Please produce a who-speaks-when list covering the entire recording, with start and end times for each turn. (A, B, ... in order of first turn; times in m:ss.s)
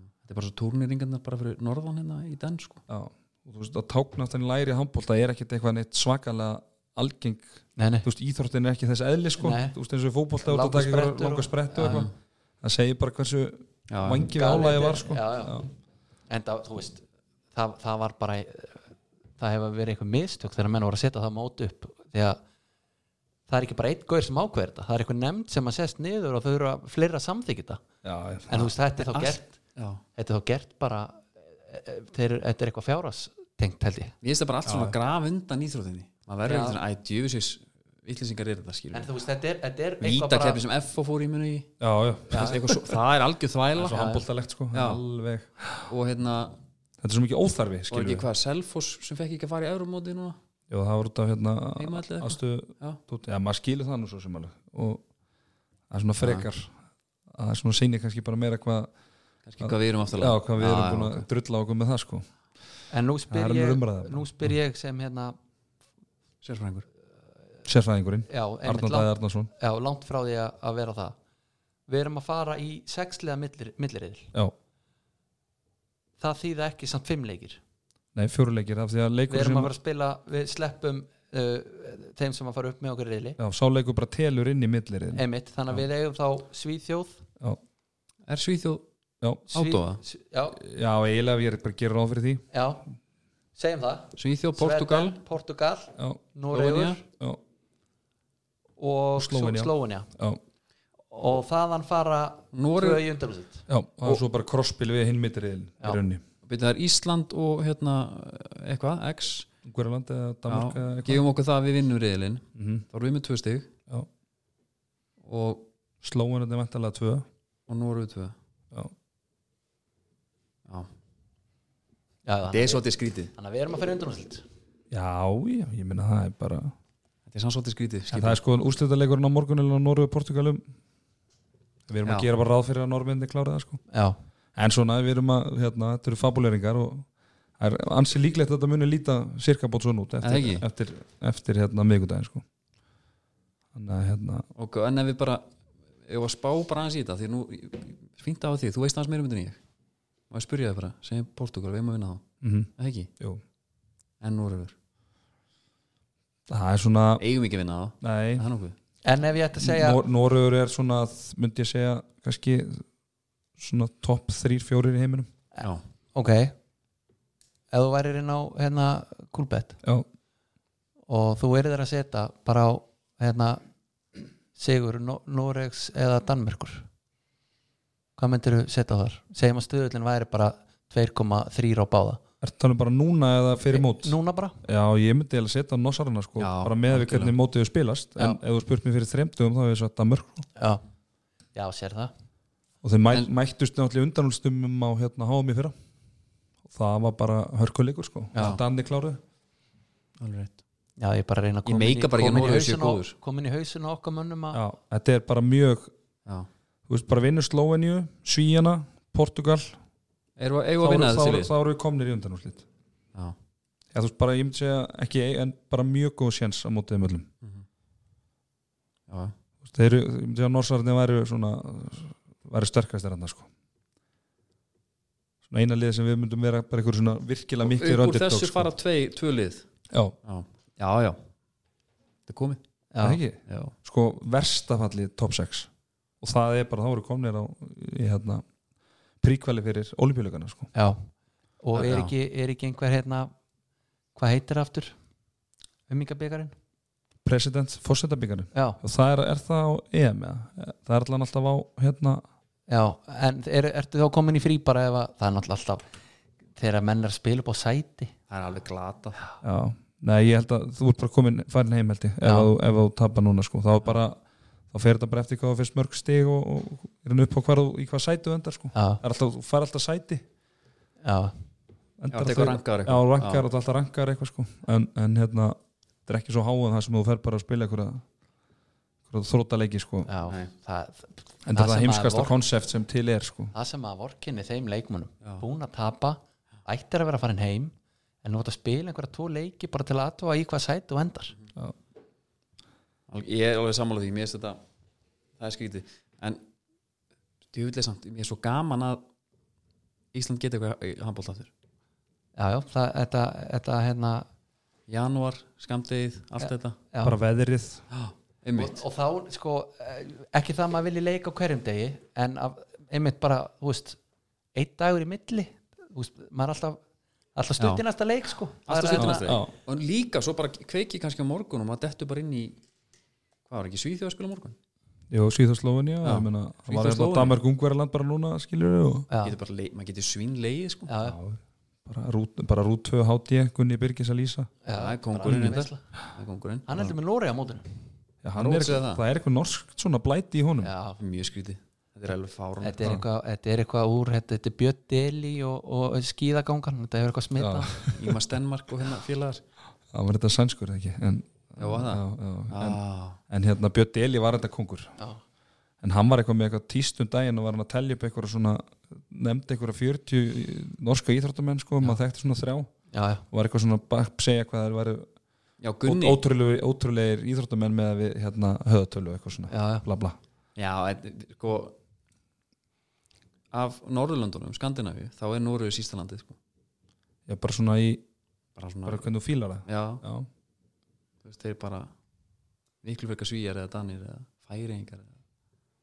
0:00.2-0:02.8 A
0:02.9-0:12.1 B
0:07.8-0:08.1 C
0:09.4-0:09.8 C
0:10.4-0:12.1 C
0:11.8-0:12.1 A
0:12.6-0:15.7 B
0:13.9-0:14.3 A
0:14.3-0:15.6 C
0:16.3-0:18.8 C
0:19.4-0:22.4 C
0:23.5-0:27.8 C
0:28.0-0:28.7 B
0:28.5-0:29.6 C
0:29.0-0:30.0 A
0:30.2-0:34.1 C
0:34.2-0:39.1 A
0:34.6-0:35.0 B
0:36.4-0:36.8 C
0:38.9-0:40.6 C
0:40.0-0:41.7 A
0:41.8-0:42.8 B
0:42.3-0:44.1 A
0:43.7-0:45.7 B
0:43.9-0:44.2 C
0:44.7-0:45.0 A
0:45.9-0:46.6 A
0:47.0-0:48.3 B
0:47.9-0:50.4 A
0:50.7-0:55.0 B
0:51.8-0:53.0 A
0:55.9-0:56.7 B
0:56.2-0:56.5 A
0:57.3-0:58.9 B
0:59.4-1:01.3 A
0:59.6-1:02.3 B
1:02.9-1:05.4 C
1:03.3-1:04.5 B
1:06.4-1:06.9 A
1:07.6-1:09.5 B
1:08.3-1:11.2 C
1:11.9-1:14.3 C
1:16.2-1:17.6 C
1:18.1-1:19.7 B
1:19.3-1:23.4 C
1:23.4-1:25.8 B
1:25.1-1:27.2 C
1:28.3-1:28.8 A
1:29.2-1:29.5 B
1:29.5-1:30.6 C
1:29.5-1:30.0 A
1:30.6-1:32.4 B
1:32.5-1:32.8 C
1:33.6-1:37.0 C
1:34.2-1:35.2 A
1:36.5-1:37.0 A
1:38.8-1:40.1 C
1:39.2-1:40.4 B
1:41.1-1:43.6 C
1:42.5-1:43.0 A
1:43.7-1:46.2 B
1:46.4-1:49.5 A
1:49.6-1:51.2 B
1:50.5-1:53.7 A
1:52.6-1:52.8 B
1:55.2-1:55.7 A
1:56.0-1:57.3 B
1:57.7-1:58.3 A
2:02.3-2:04.4 C
2:02.5-2:03.3 A
2:04.9-2:06.7 B
2:07.3-2:08.4 A
2:08.1-2:10.6 B
2:11.9-2:13.8 B
2:13.9-2:14.2 C
2:14.6-2:17.1 B
2:17.6-2:22.4 B
2:20.2-2:20.6 A
2:23.7-2:24.5 B
2:24.6-2:25.4 A
2:26.1-2:29.6 A
2:30.3-2:32.2 A
2:32.4-2:33.4 B
2:32.8-2:33.1 A
2:34.2-2:34.7 A
2:36.5-2:37.2 B
2:37.2-2:38.8 A
2:38.0-2:38.4 B
2:39.0-2:40.0 C
2:39.6-2:42.8 B
2:43.6-2:45.3 B
2:45.6-2:46.6 C
2:47.7-2:49.8 C
2:51.1-2:53.6 C
2:54.6-2:56.9 C
2:58.2-3:02.2 C
3:02.4-3:10.4 B
3:03.7-3:04.6 C
3:06.4-3:07.3 A
3:10.6-3:10.8 C
3:11.6-3:12.1 C
3:12.8-3:15.7 B
3:16.7-3:19.2 B
3:20.2-3:20.6 A
3:21.0-3:24.6 C
3:21.6-3:23.2 A
3:24.5-3:25.9 B
3:26.9-3:29.8 B
3:30.4-3:31.5 A
3:30.8-3:32.6 B
3:33.9-3:37.3 B
3:39.1-3:39.3 A
3:39.6-3:43.5 B
3:45.5-3:48.7 B
3:47.6-3:49.6 A
3:49.9-3:50.2 B
3:50.2-3:51.2 A
3:52.3-3:52.6 A
3:52.9-3:53.2 C
3:53.0-3:55.7 B
3:53.5-3:53.7 A
3:56.2-3:58.4 B
3:59.2-4:00.7 B
4:00.7-4:01.0 C
4:01.6-4:03.3 C
4:01.7-4:02.1 A
4:04.1-4:05.0 C
4:05.9-4:06.5 C
4:07.2-4:12.2 B
4:08.5-4:08.8 C
4:12.7-4:15.8 C
4:16.6-4:18.1 C
4:18.3-4:19.2 A
4:19.4-4:24.2 B
4:22.2-4:22.5 C
4:24.7-4:30.2 B
4:28.7-4:29.0 C
4:31.0-4:31.3 C
4:32.0-4:38.0 B
4:32.1-4:33.5 A
4:39.1-4:40.1 B
4:40.0-4:42.4 C
4:41.4-4:43.5 B
4:43.5-4:51.3 C
4:53.1-4:54.6 A
4:55.4-4:56.4 A
4:57.5-4:59.0 A
5:00.1-5:01.5 A
5:02.4-5:04.3 C
5:04.9-5:06.8 A
5:06.4-5:07.2 C
5:07.0-5:07.8 B
5:07.9-5:08.8 A
5:08.6-5:14.0 C
5:14.6-5:16.8 C
5:17.3-5:19.4 C
5:18.6-5:22.6 A
5:19.0-5:19.5 B
5:23.5-5:24.6 A
5:25.1-5:29.1 B
5:26.0-5:27.4 A
5:29.1-5:29.4 C
5:29.2-5:30.9 A
5:30.9-5:31.2 C
5:31.0-5:34.5 B
5:34.6-5:35.8 C
5:34.7-5:36.8 A
5:35.2-5:35.6 B
5:36.7-5:37.6 C
5:38.2-5:40.7 B
5:38.4-5:39.0 A
5:40.6-5:41.0 C
5:41.0-5:42.8 A
5:42.6-5:47.9 C
5:47.4-5:48.2 B
5:47.9-5:49.4 A
5:49.9-5:54.9 B
5:51.6-5:53.2 A
5:55.8-6:02.7 B
6:02.9-6:03.2 C
6:03.3-6:05.1 B
6:05.6-6:06.2 A
6:05.8-6:10.2 B
6:09.5-6:09.9 C
6:10.6-6:11.8 A
6:13.5-6:16.4 A
6:17.3-6:18.0 B
6:18.6-6:19.1 A
6:18.9-6:20.3 B
6:19.6-6:20.0 A
6:21.2-6:21.9 A
6:22.8-6:25.1 A